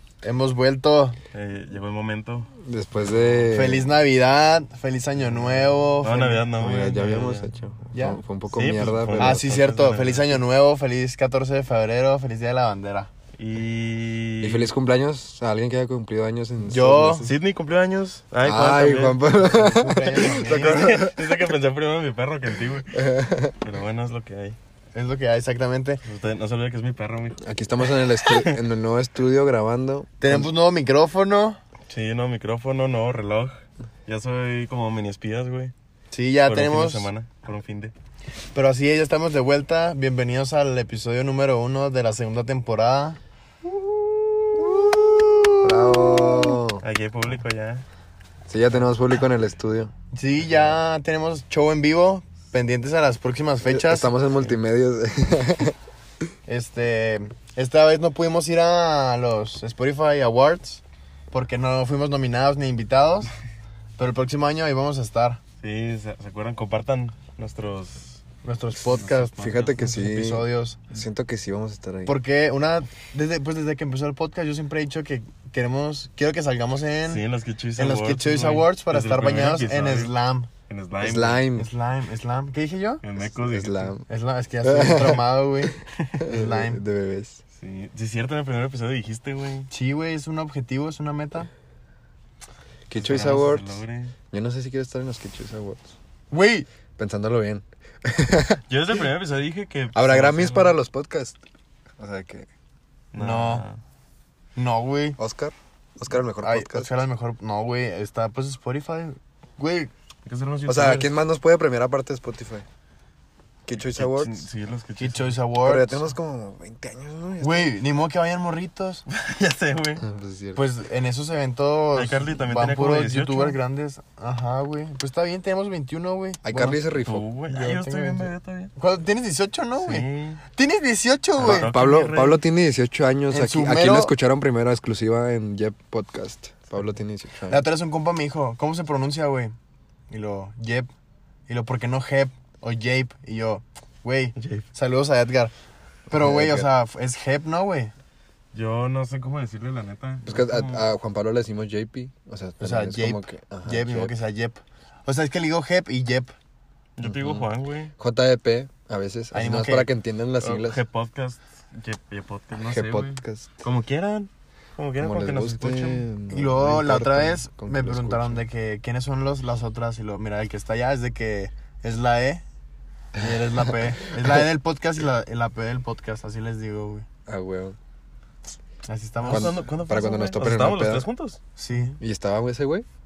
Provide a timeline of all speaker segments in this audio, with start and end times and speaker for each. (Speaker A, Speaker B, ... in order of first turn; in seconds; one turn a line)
Speaker A: 0.2-1.2
Speaker B: 1.3-3.5
Speaker C: 2.6-3.9
Speaker A: 3.5-6.5
Speaker B: 5.4-7.5
Speaker C: 6.6-9.6
Speaker A: 7.9-8.2
Speaker B: 8.5-10.4
Speaker A: 9.2-13.1
Speaker B: 13.3-14.7
Speaker C: 14.4-17.4
Speaker A: 16.7-17.3
Speaker B: 17.2-19.2
Speaker C: 18.4-21.4
Speaker A: 19.5-21.0
Speaker B: 20.4-24.6
Speaker C: 22.9-23.5
Speaker A: 24.9-26.0
Speaker B: 26.0-28.6
Speaker C: 27.4-30.5
Speaker A: 30.2-31.6
Speaker B: 31.9-35.7
Speaker A: 36.1-37.1
Speaker B: 36.5-37.9
Speaker A: 38.5-43.2
Speaker A: 44.4-46.6
Speaker C: 45.6-46.8
Speaker B: 46.8-47.8
Speaker C: 48.5-49.9
Speaker A: 50.1-54.1
Speaker C: 53.6-55.8
Speaker A: 56.5-63.3
Speaker A: 64.0-65.4
Speaker B: 65.6-68.2
Speaker A: 68.4-70.9
Speaker B: 68.8-69.7
Speaker C: 69.0-72.2
Speaker A: 72.0-77.2
Speaker B: 77.1-80.1
Speaker A: 77.8-80.5
Speaker B: 80.7-81.5
Speaker C: 81.0-81.7
Speaker A: 81.5-83.0
Speaker B: 83.0-83.9
Speaker C: 83.2-84.0
Speaker A: 84.1-86.8
Speaker C: 84.6-87.4
Speaker B: 87.5-89.7
Speaker A: 89.7-91.5
Speaker C: 92.9-96.0
Speaker B: 93.0-94.1
Speaker A: 96.3-96.7
Speaker C: 97.0-98.6
Speaker B: 98.7-100.8
Speaker C: 99.9-101.4
Speaker C: 102.0-102.5
Speaker B: 103.1-103.8
Speaker A: 103.1-103.7
Speaker A: 104.5-105.2
Speaker C: 105.2-107.0
Speaker A: 106.4-109.9
Speaker B: 110.2-111.2
Speaker C: 110.7-112.7
Speaker C: 113.6-114.4
Speaker B: 113.8-115.4
Speaker A: 115.0-116.1
Speaker C: 115.6-117.7
Speaker A: 117.4-119.0
Speaker B: 119.1-120.0
Speaker C: 120.0-120.6
Speaker A: 120.5-126.8
Speaker B: 121.9-123.6
Speaker C: 126.4-127.3
Speaker B: 126.9-128.7
Speaker A: 127.5-131.7
Speaker B: 129.8-130.4
Speaker B: 131.4-132.4
Speaker C: 131.4-137.6
Speaker A: 133.3-134.1
Speaker A: 137.5-139.5
Speaker A: 140.1-140.9
Speaker A: 141.5-145.5
Speaker B: 144.3-144.6
Speaker C: 146.1-146.7
Speaker A: 146.1-147.9
Speaker B: 148.5-150.9
Speaker C: 150.2-154.1
Speaker A: 152.6-156.3
Speaker B: 156.9-157.9
Speaker C: 157.0-160.8
Speaker A: 159.3-159.9
Speaker B: 160.4-166.1
Speaker C: 162.6-163.5
Speaker C: 165.0-168.4
Speaker A: 166.3-172.4
Speaker A: 173.2-177.1
Speaker C: 177.3-177.8
Speaker A: 178.9-179.6
Speaker B: 179.2-181.4
Speaker C: 179.3-181.1
Speaker A: 181.6-182.0
Speaker C: 182.0-182.8